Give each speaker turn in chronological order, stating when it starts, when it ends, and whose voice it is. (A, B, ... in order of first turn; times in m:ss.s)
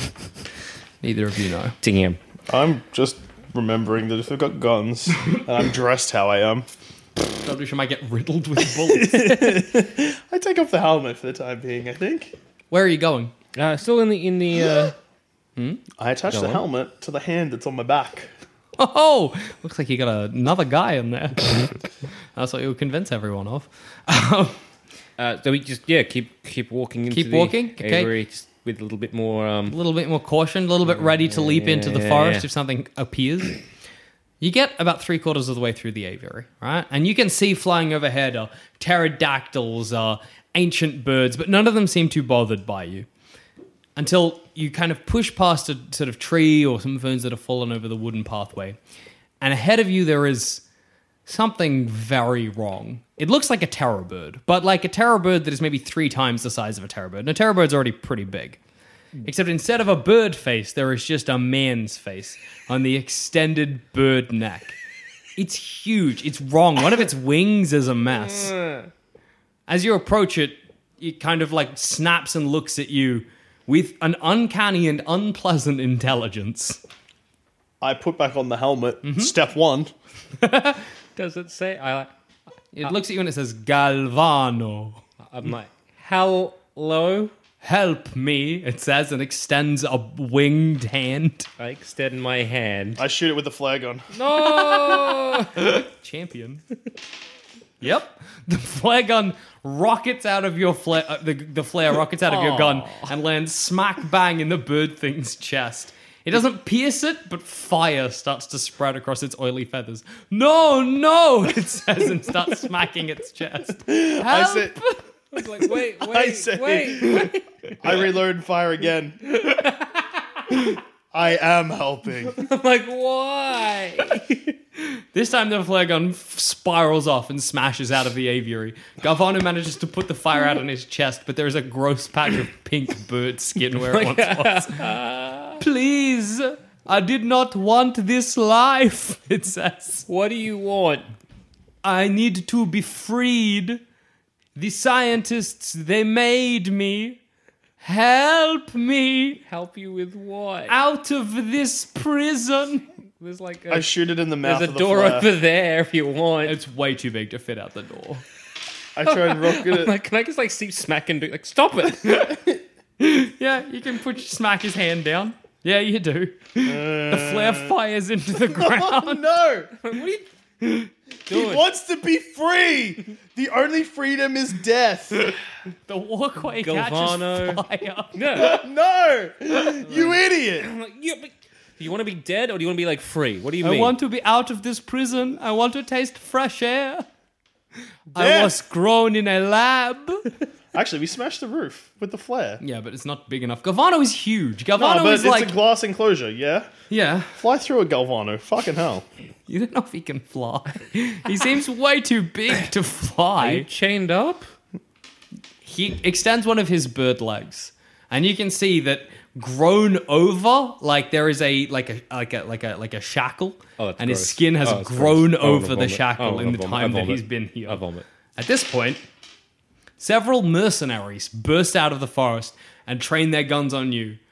0:01.0-0:01.7 A
0:01.8-0:02.2 B
0:02.5-0:06.6 C
0:07.4-0:09.5 A
0:08.9-0:12.3 C
0:12.7-0:13.3 A
0:13.5-0:14.9 B
0:15.6-0:15.8 A
0:16.0-0:18.3 C
0:16.3-0:16.6 B
0:18.8-0:21.7 A
0:22.4-0:24.6 A
0:25.2-0:29.8 B
0:27.1-0:28.1 A
0:29.7-0:33.6 A
0:31.0-0:32.4 B
0:34.4-0:43.1 A
0:44.0-0:48.8 A
0:49.4-0:50.6 A
0:51.2-0:58.6 A
0:59.2-1:04.8 A
1:05.4-1:08.6 A
1:09.7-1:16.8 A
1:17.8-1:19.9 C
1:19.0-1:19.3 A
1:20.4-1:20.8 A
1:21.2-1:22.1 B
1:22.7-1:25.0 A
1:25.3-1:27.3 B
1:27.6-1:31.5 A
1:31.6-1:33.0 B
1:33.0-1:34.1 C
1:34.1-1:35.6 B
1:34.7-1:36.6 A
1:37.8-1:55.0 A
1:42.2-1:43.1 B
1:53.8-1:54.8 C
1:55.3-1:57.4 B
1:56.0-1:57.3 C
1:57.8-1:59.3 C
1:59.4-2:00.0 B
2:01.1-2:02.4 C
2:02.4-2:04.6 B
2:05.1-2:14.8 A
2:13.9-2:15.6 B
2:15.6-2:20.1 A
2:20.1-2:21.1 B
2:21.8-2:23.8 A
2:24.6-2:27.2 A
2:27.8-2:29.4 A
2:29.4-2:30.7 B
2:30.7-2:32.8 A
2:33.2-2:36.6 B
2:33.7-2:35.3 C
2:36.4-2:38.2 A
2:39.0-2:39.9 C
2:39.0-2:42.2 B
2:42.0-2:42.4 A
2:43.0-2:49.2 A
2:46.6-2:47.7 C
2:48.5-2:49.7 C
2:49.8-2:50.3 B
2:50.6-2:50.9 A
2:51.3-2:51.6 B
2:51.3-2:55.4 C
2:55.9-2:58.2 A
2:56.4-2:57.6 B
2:58.1-2:58.6 B
2:58.3-3:00.7 C
2:59.9-3:04.0 B
3:03.6-3:07.0 A
3:08.1-3:10.3 A
3:08.2-3:08.6 C
3:10.7-3:12.6 C
3:12.6-3:15.6 A
3:14.8-3:16.7 C
3:16.9-3:17.4 A
3:17.4-3:19.0 C
3:19.5-3:23.7 A
3:23.4-3:24.5 B
3:25.6-3:37.8 A
3:33.8-3:38.0 B
3:38.4-3:39.0 A
3:40.0-3:44.2 A